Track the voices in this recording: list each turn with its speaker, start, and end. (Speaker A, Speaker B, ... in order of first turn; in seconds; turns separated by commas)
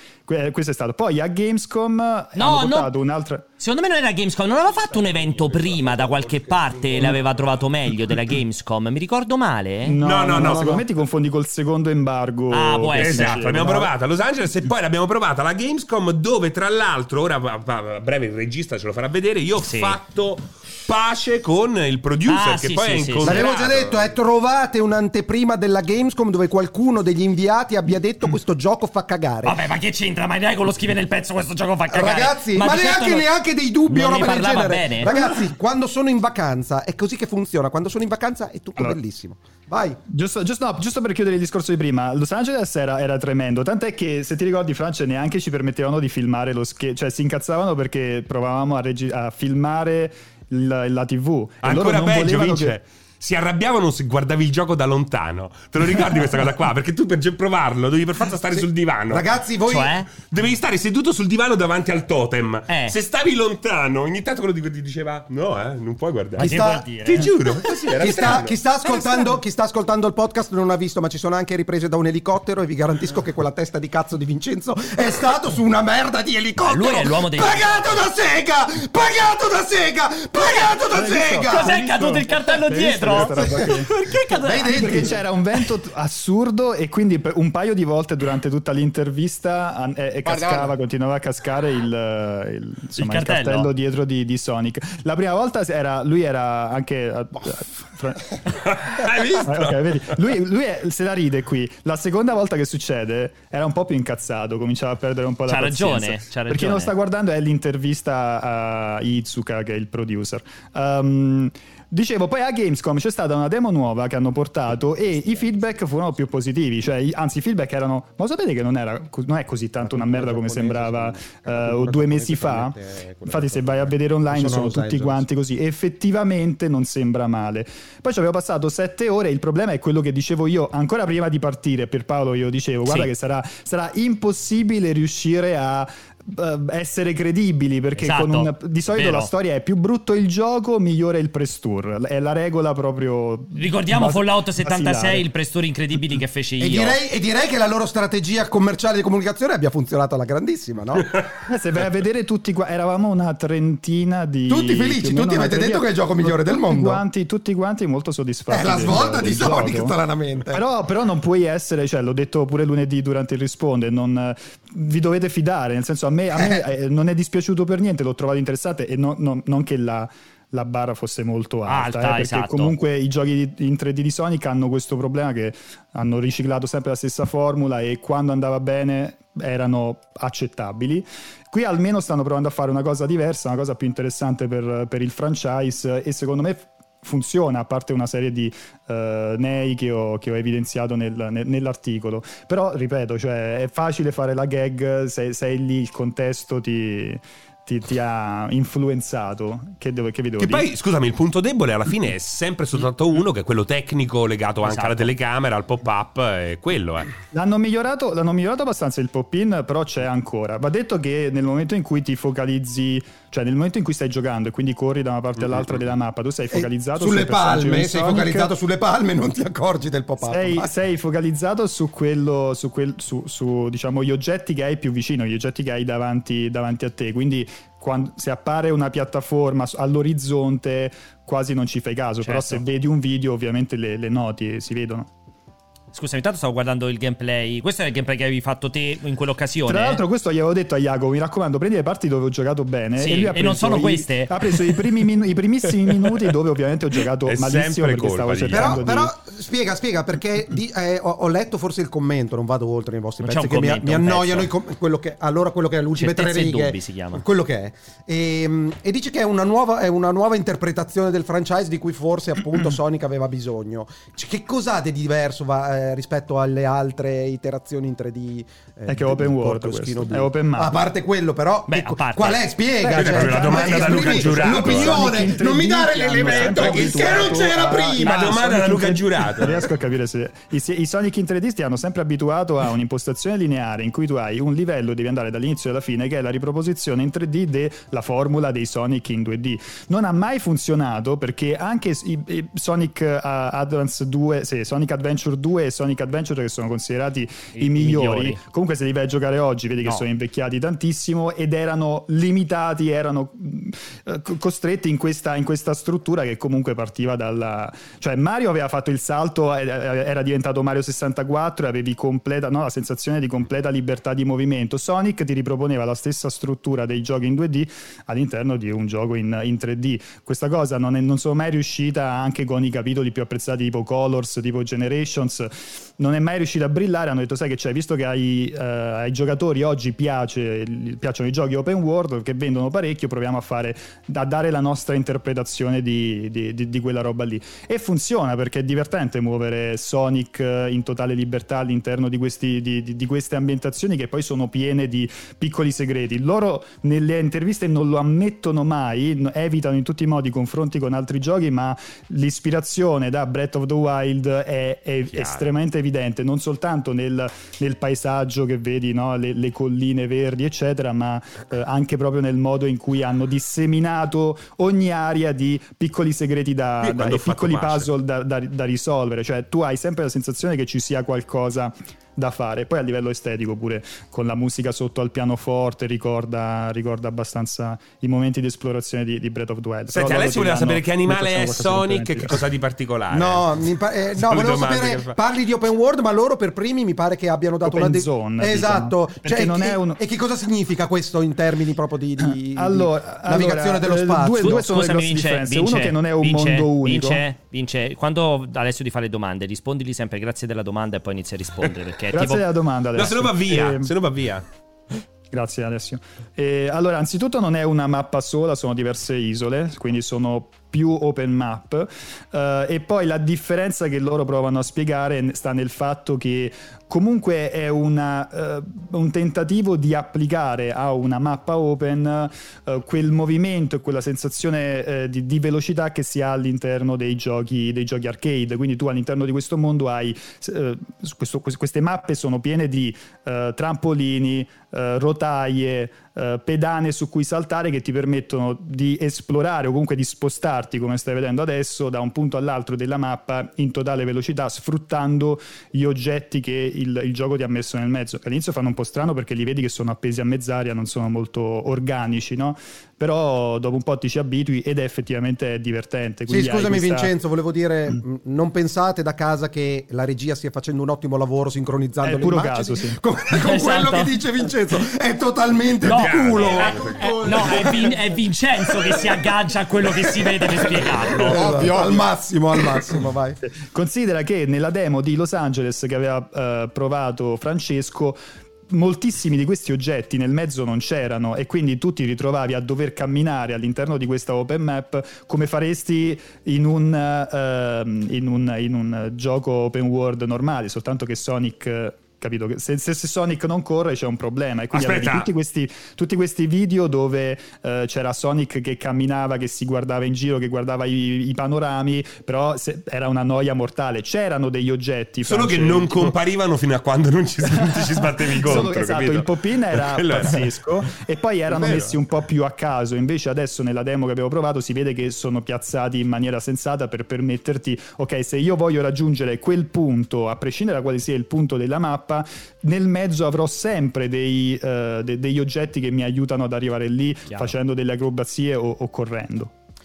Speaker A: 0.2-3.5, Speaker B: 2.4-2.9, Speaker B: 3.6-10.0, Speaker C: 4.9-7.2, Speaker A: 9.8-13.9, Speaker C: 10.0-10.8, Speaker B: 12.5-13.4, Speaker C: 12.9-24.1, Speaker B: 19.6-20.0, Speaker B: 22.3-23.6, Speaker D: 23.2-29.6, Speaker B: 29.4-33.3, Speaker D: 31.9-40.0, Speaker B: 33.9-35.1, Speaker A: 40.1-52.8, Speaker C: 51.6-59.2, Speaker D: 58.5-60.0, Speaker B: 59.7-60.1, Speaker C: 60.1-66.5, Speaker B: 62.7-62.9, Speaker B: 66.4-67.3, Speaker D: 66.4-67.2, Speaker C: 67.0-68.6, Speaker D: 68.0-81.8, Speaker B: 68.9-69.2, Speaker B: 76.6-78.0, Speaker A: 80.9-83.9, Speaker B: 81.4-85.1, Speaker D: 83.2-83.7, Speaker D: 84.4-85.2, Speaker A: 84.6-145.3, Speaker B: 93.0-93.7, Speaker C: 98.7-99.7, Speaker B: 105.5-106.9, Speaker D: 119.8-125.2, Speaker B: 132.8-133.1, Speaker B: 138.0-139.3, Speaker B: 143.6-147.0, Speaker D: 146.6-151.1, Speaker A: 151.4-159.9, Speaker D: 154.5-157.0, Speaker D: 158.5-160.6, Speaker A: 160.5-200.7, Speaker B: 171.7-172.7, Speaker C: 200.4-207.1, Speaker B: 204.6-205.1, Speaker A: 207.3-218.5, Speaker D: 216.5-220.7, Speaker A: 220.2-235.1, Speaker B: 232.2-232.6, Speaker B: 235.9-240.0, Speaker A: 239.7-249.1, Speaker B: 243.0-244.3, Speaker C: 247.2-248.8, Speaker D: 248.5-278.4, Speaker B: 253.2-254.5, Speaker B: 255.9-257.2, Speaker A: 268.9-270.8, Speaker B: 271.7-272.4, Speaker A: 272.8-382.4, Speaker C: 272.9-275.1, Speaker C: 276.2-279.6, Speaker B: 297.5-298.4, Speaker C: 355.1-355.4, Speaker C: 366.8-367.9, Speaker C: 379.9-383.5, Speaker D: 383.1-394.6, Speaker C: 384.2-385.1, Speaker A: 387.6-390.0, Speaker A: 392.2-397.2, Speaker B: 394.4-402.4, Speaker A: 402.1-403.9, Speaker C: 402.9-404.4, Speaker A: 405.3-457.1, Speaker D: 456.3-467.9, Speaker A: 462.0-463.0, Speaker B: 463.3-464.1, Speaker C: 465.8-467.7, Speaker B: 465.8-471.5, Speaker D: 471.2-473.4, Speaker A: 471.3-472.0, Speaker A: 473.4-506.1, Speaker C: 494.7-495.3, Speaker C: 505.2-510.5, Speaker A: 507.4-529.5, Speaker C: 511.5-511.9, Speaker B: 527.3-527.5